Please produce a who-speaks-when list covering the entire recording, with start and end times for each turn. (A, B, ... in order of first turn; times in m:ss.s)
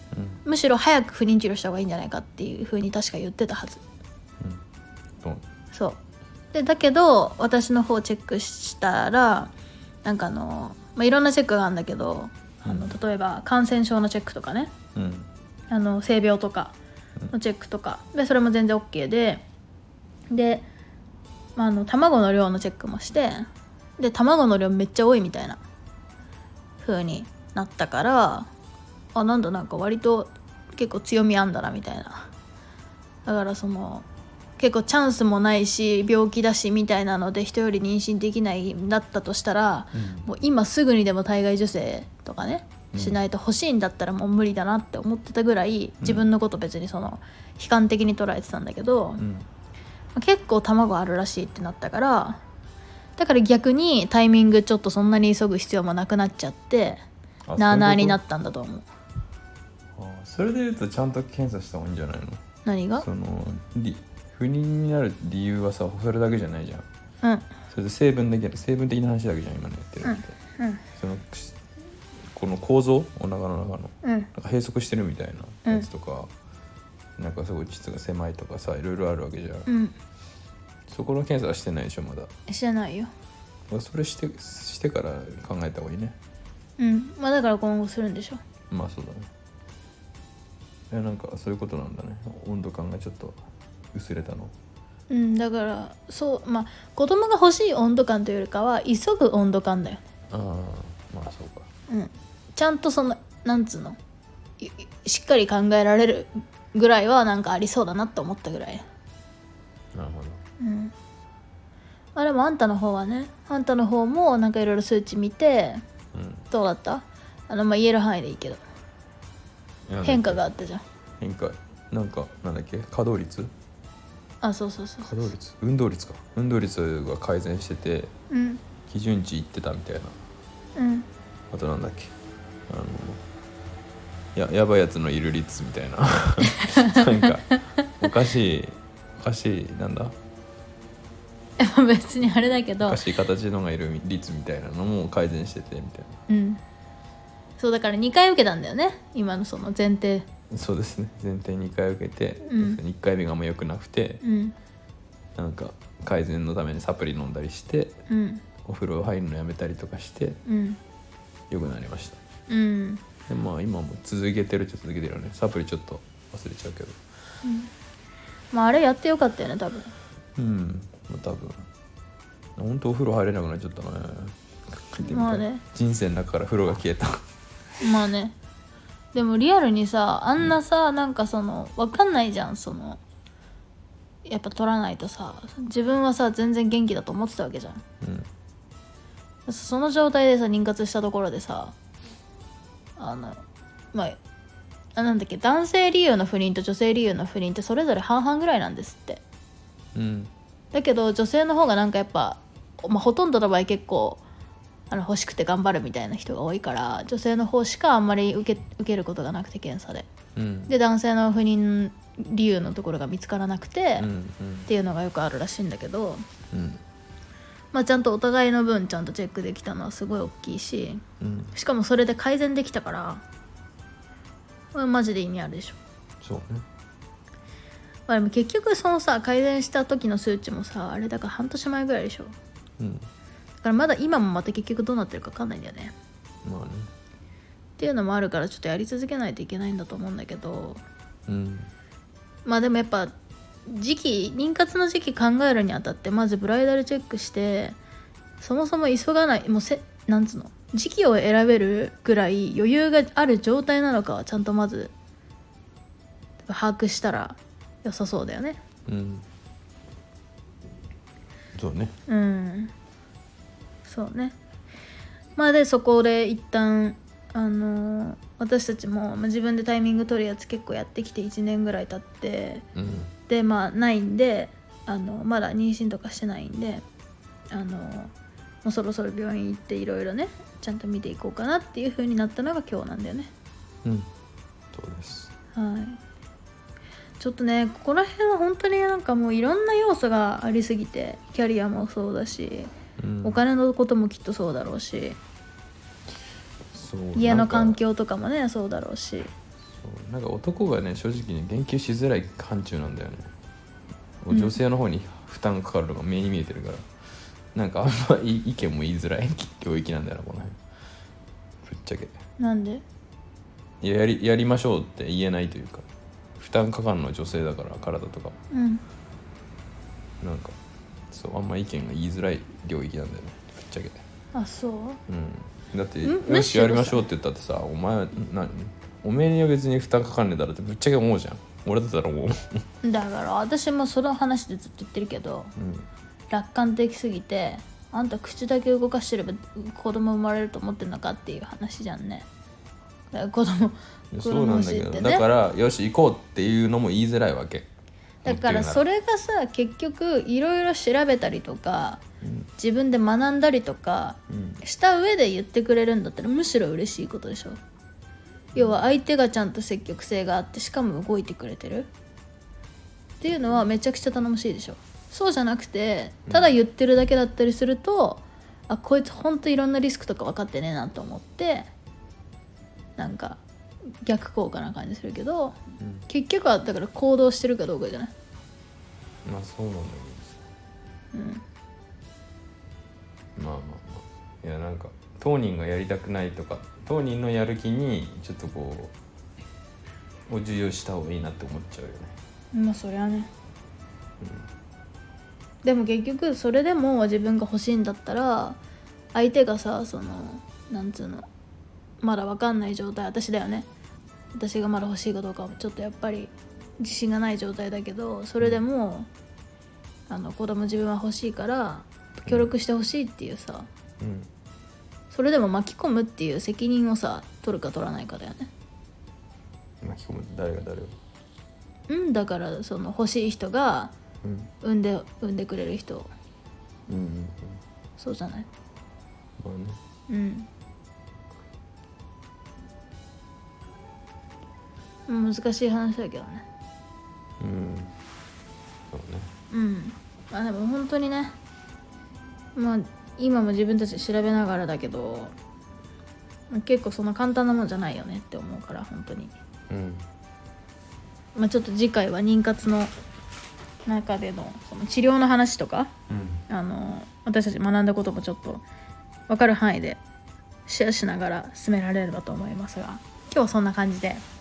0:00.1-0:00.4 A
0:00.4-0:03.8 B
0:05.7-0:06.0 B
0:06.5-0:09.5 B
0:10.0-0:14.7 B
0:12.6-0:13.0 A
0:14.9-0:15.3 A
0:15.7-0:16.8 B
0:17.3-0:19.4 B
0:20.3-0:20.7 B
0:21.6-0:25.6 B
0:26.8-0:28.5 B
0:29.1-0:32.3 B
0:33.2-0:34.0 B
0:34.6-0:49.2 B
0:39.9-0:40.3 A
0:42.9-0:43.2 A
0:46.0-0:46.3 A
0:49.2-0:49.5 A
0:50.1-0:52.4 B
0:53.2-0:57.0 B
0:57.4-0:58.2 A
0:57.6-0:58.9 B
1:00.0-1:02.4 A
1:02.6-1:03.0 B
1:03.0-1:06.8 A
1:07.2-1:07.5 B
1:07.7-1:10.3 A
1:10.0-1:10.8 B
1:11.0-1:11.6 A
1:12.3-1:16.3 A
1:14.0-1:14.3 B
1:17.2-1:19.7 A
1:19.7-1:19.9 B
1:20.9-1:22.3 A
1:22.5-1:23.1 B
1:23.7-1:26.2 A
1:26.8-1:28.4 B
1:28.7-1:29.3 A
1:30.9-1:33.4 A
1:33.9-1:34.5 A
1:35.1-1:40.0 B
1:40.3-1:41.7 A
1:41.9-1:44.0 B
1:44.6-1:48.8 B
1:49.9-1:50.4 A
1:50.6-1:50.9 B
1:52.1-1:55.8 B
1:56.1-1:56.5 A
1:56.5-1:58.6 B
1:59.9-2:00.4 A
2:00.0-2:00.8 B
2:01.2-2:03.5 A
2:04.4-2:05.2 B
2:05.0-2:08.1 A
2:08.3-2:08.6 B
2:08.9-2:10.2 A
2:10.8-2:11.1 B
2:11.5-2:12.1 A
2:12.7-2:13.2 A
2:14.3-2:20.1 A
2:16.4-2:18.1 B
2:21.6-2:23.0 B
2:22.8-2:26.1 A
2:26.3-2:26.6 B
2:27.6-2:30.3 B
2:30.5-2:34.2 A
2:32.4-2:32.8 B
2:34.2-2:34.5 B
2:35.4-2:38.0 A
2:38.1-2:38.4 B
2:38.6-2:40.4 A
2:40.4-2:40.8 B
2:41.5-2:42.2 A
2:42.5-2:43.0 B
2:43.3-2:47.0 A
2:47.4-2:47.7 B
2:48.5-2:49.9 B
2:50.4-2:51.6 A
2:52.6-2:57.2 A
2:55.0-2:55.6 B
2:57.8-2:58.4 B
2:59.1-3:03.0 B
3:04.2-3:07.8 B
3:08.0-3:08.3 A
3:09.5-3:11.7 B
3:13.0-3:13.4 B
3:13.9-3:14.2 B
3:15.0-3:19.2 B
3:19.9-3:20.3 A
3:20.7-3:24.2 B
3:24.9-3:30.0 B
3:30.4-3:30.8 A
3:30.7-3:34.1 B
3:34.0-3:34.7 A
3:34.7-3:36.2 B
3:36.5-3:36.8 A
3:37.7-3:43.2 B
3:41.2-3:41.5 A
3:44.7-3:45.8 B
3:46.2-3:46.6 A
3:48.1-3:52.3 B
3:52.8-3:53.1 A
3:53.6-3:55.9 B
3:56.4-3:56.9 A
3:57.8-4:00.8 B
4:01.3-4:01.7 A
4:02.4-4:03.1 B
4:03.6-4:07.8 B
4:08.4-4:14.9 B
4:16.4-4:18.6 B
4:18.9-4:19.2 A
4:21.5-4:21.9 A
4:22.1-4:22.7 B
4:23.8-4:24.4 B
4:25.4-4:32.6 B
4:32.7-4:33.1 A
4:33.3-4:36.8 B
4:37.5-4:38.1 B
4:38.6-4:43.3 B
4:43.8-4:44.1 A
4:44.7-4:45.3 A
4:45.5-4:46.0 B
4:47.2-4:52.7 B
4:53.0-4:53.4 A
4:53.2-4:55.2 B
4:56.7-4:57.8 A
4:57.1-4:59.3 B
4:59.7-5:03.3 A
5:04.2-5:06.8 A
5:04.3-5:04.6 B
5:07.5-5:10.6 A
5:11.6-5:12.2 A
5:12.4-5:12.8 B
5:13.8-5:15.8 A
5:16.4-5:18.3 A
5:18.5-5:18.8 B
5:20.2-5:20.5 A
5:21.1-5:24.0 A
5:24.3-5:25.0 B
5:25.1-5:32.6 A
5:26.0-5:27.0 B
5:32.8-5:35.5 B
5:35.6-5:35.9 A
5:36.3-5:42.3 B
5:43.1-5:45.2 B
5:44.1-5:47.7 A
5:48.2-5:48.8 A
5:48.2-5:52.0 B
5:52.2-5:52.5 A
5:52.6-5:57.6 B
5:54.3-5:54.6 A
5:58.5-5:58.8 A
5:58.5-6:01.9 B
6:03.2-6:11.7 B
6:06.3-6:06.5 A
6:13.0-6:13.4 B
6:14.0-6:15.6 B
6:15.8-6:16.1 A
6:16.1-6:18.1 B
6:19.2-6:20.4 A
6:21.1-6:21.4 B
6:23.4-6:28.9 A
6:30.3-6:32.1 A
6:32.5-6:33.3 B
6:34.2-6:34.5 A
6:35.6-6:38.6 B
6:39.1-6:41.2 B
6:42.0-6:43.7 B
6:44.3-6:49.1 B
6:50.1-6:53.7 B
6:54.0-6:54.3 A
6:55.1-6:58.5 B
6:59.8-7:01.0 A
7:01.9-7:03.9 B
7:04.2-7:04.5 A
7:04.6-7:06.1 B
7:06.9-7:07.6 A
7:08.0-7:08.5 B
7:09.4-7:09.8 A
7:10.1-7:10.5 B
7:15.1-7:16.4 B
7:17.4-7:17.9 A
7:18.9-7:19.3 A
7:19.5-7:21.4 B
7:22.6-7:25.3 B
7:26.5-7:29.3 B
7:29.7-7:30.0 A
7:31.3-7:32.9 B
7:33.8-7:35.9 B
7:36.1-7:36.4 A
7:36.5-7:38.6 B
7:39.3-7:40.0 B
7:40.7-7:44.2 B